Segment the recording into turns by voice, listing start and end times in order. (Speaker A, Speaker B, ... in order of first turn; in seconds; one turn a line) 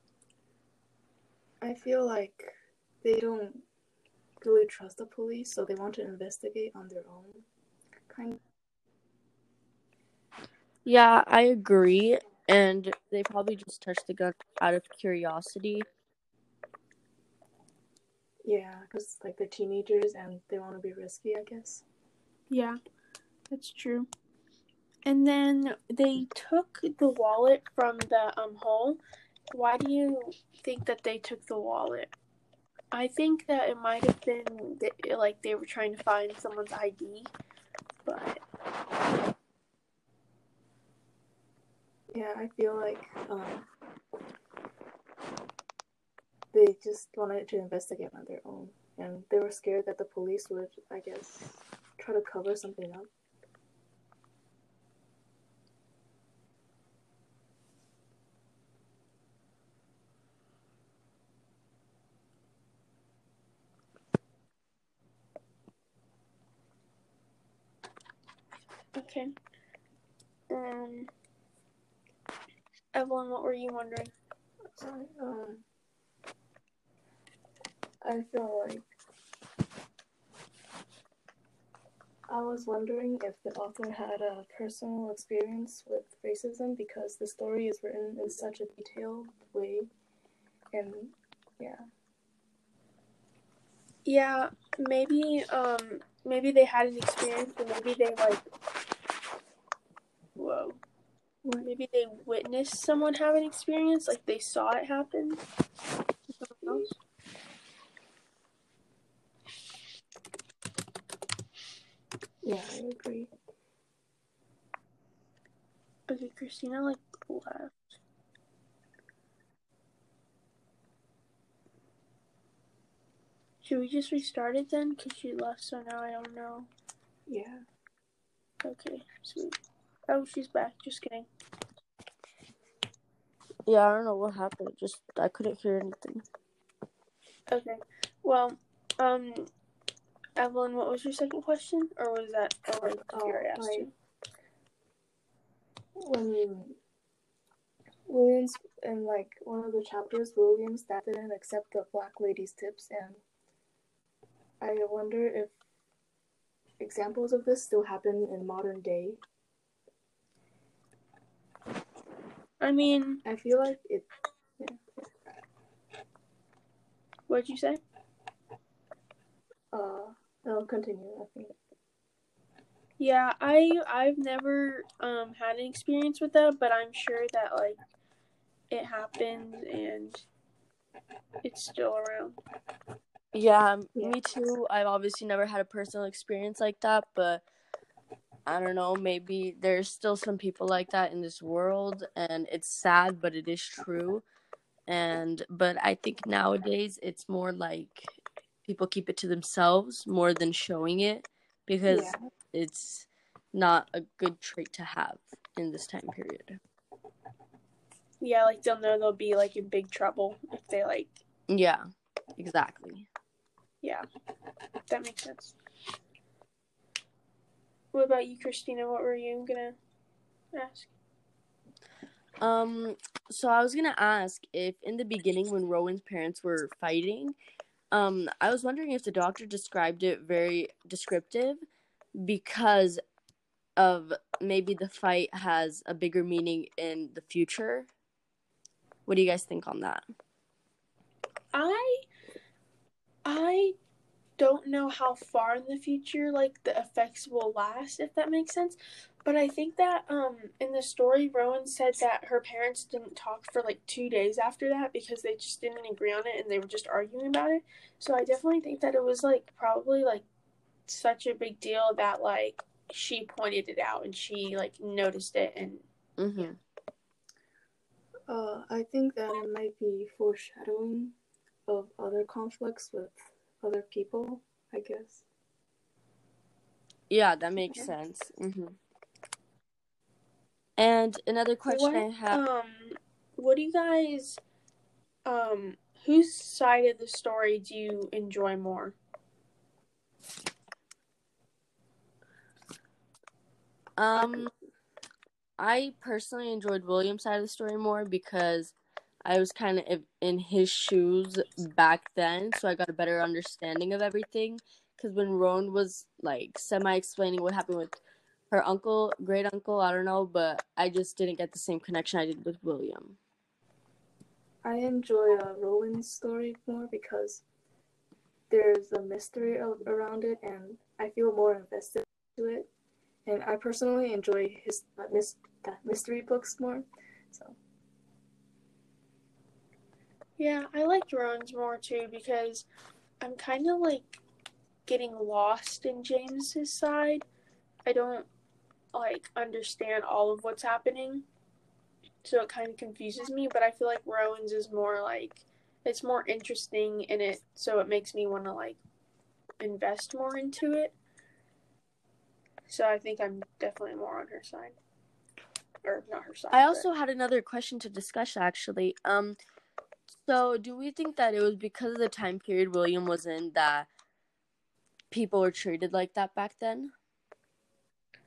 Speaker A: 1.6-3.6
Speaker A: 4.4-7.5
Speaker A: 8.1-8.4
Speaker B: 10.8-15.9
Speaker A: 18.4-21.8
Speaker C: 22.5-22.8
Speaker C: 23.5-24.1
Speaker C: 25.1-29.0
Speaker C: 29.5-32.1
Speaker C: 32.9-37.3
Speaker C: 38.0-38.4
Speaker A: 42.1-43.7
Speaker A: 46.5-53.1
Speaker C: 69.0-69.3
Speaker C: 70.5-71.1
Speaker C: 73.0-74.1
Speaker A: 74.8-75.6
Speaker A: 78.0-78.9
Speaker A: 82.3-89.9
Speaker A: 90.7-91.8
Speaker C: 94.0-98.4
Speaker C: 100.4-100.8
Speaker A: 101.4-101.7
Speaker C: 101.6-105.4
Speaker C: 106.4-106.9
Speaker A: 112.4-113.3
Speaker C: 116.1-118.0
Speaker C: 123.6-126.7
Speaker A: 127.3-127.7
Speaker C: 128.6-129.6
Speaker C: 130.1-131.3
Speaker B: 133.7-136.2
Speaker C: 137.5-139.5
Speaker C: 140.4-143.9
Speaker A: 143.0-143.9
Speaker A: 146.0-146.8
Speaker A: 148.1-153.2
Speaker A: 154.6-155.5
Speaker A: 156.8-159.2
Speaker C: 162.6-163.2
Speaker A: 163.2-164.1
Speaker A: 164.6-165.1
Speaker C: 167.3-167.8
Speaker A: 169.7-171.6
Speaker C: 173.0-177.8
Speaker C: 178.7-180.3
Speaker C: 181.4-182.4
Speaker B: 183.3-187.4
Speaker B: 188.5-194.2
Speaker B: 194.9-206.6
Speaker A: 201.9-202.2
Speaker C: 208.2-211.2
Speaker B: 211.5-211.9
Speaker B: 212.4-213.1
Speaker C: 214.9-215.6
Speaker C: 217.9-219.8
Speaker C: 220.5-220.9
Speaker B: 222.4-227.3
Speaker B: 227.9-231.6
Speaker B: 232.2-233.0
Speaker B: 233.8-237.9
Speaker B: 239.1-240.1
Speaker C: 241.5-242.1
Speaker C: 243.2-243.8
Speaker C: 244.4-260.3
Speaker C: 260.9-265.8
Speaker B: 266.2-266.6
Speaker A: 268.3-271.2
Speaker A: 271.7-275.2
Speaker B: 277.1-278.8
Speaker B: 280.8-282.4
Speaker C: 281.7-284.4
Speaker C: 285.3-289.0
Speaker B: 294.0-294.5
Speaker A: 294.2-294.5
Speaker B: 295.6-313.2
Speaker A: 314.6-317.4
Speaker A: 318.5-322.7
Speaker A: 323.3-327.6
Speaker C: 330.4-332.7
Speaker C: 333.2-334.2
Speaker C: 334.9-337.2
Speaker C: 337.9-338.3
Speaker C: 338.9-341.2
Speaker C: 342.2-348.8
Speaker C: 349.6-350.9
Speaker C: 352.7-354.8
Speaker C: 355.9-356.9
Speaker B: 356.5-359.4
Speaker B: 360.2-363.9
Speaker B: 365.1-366.9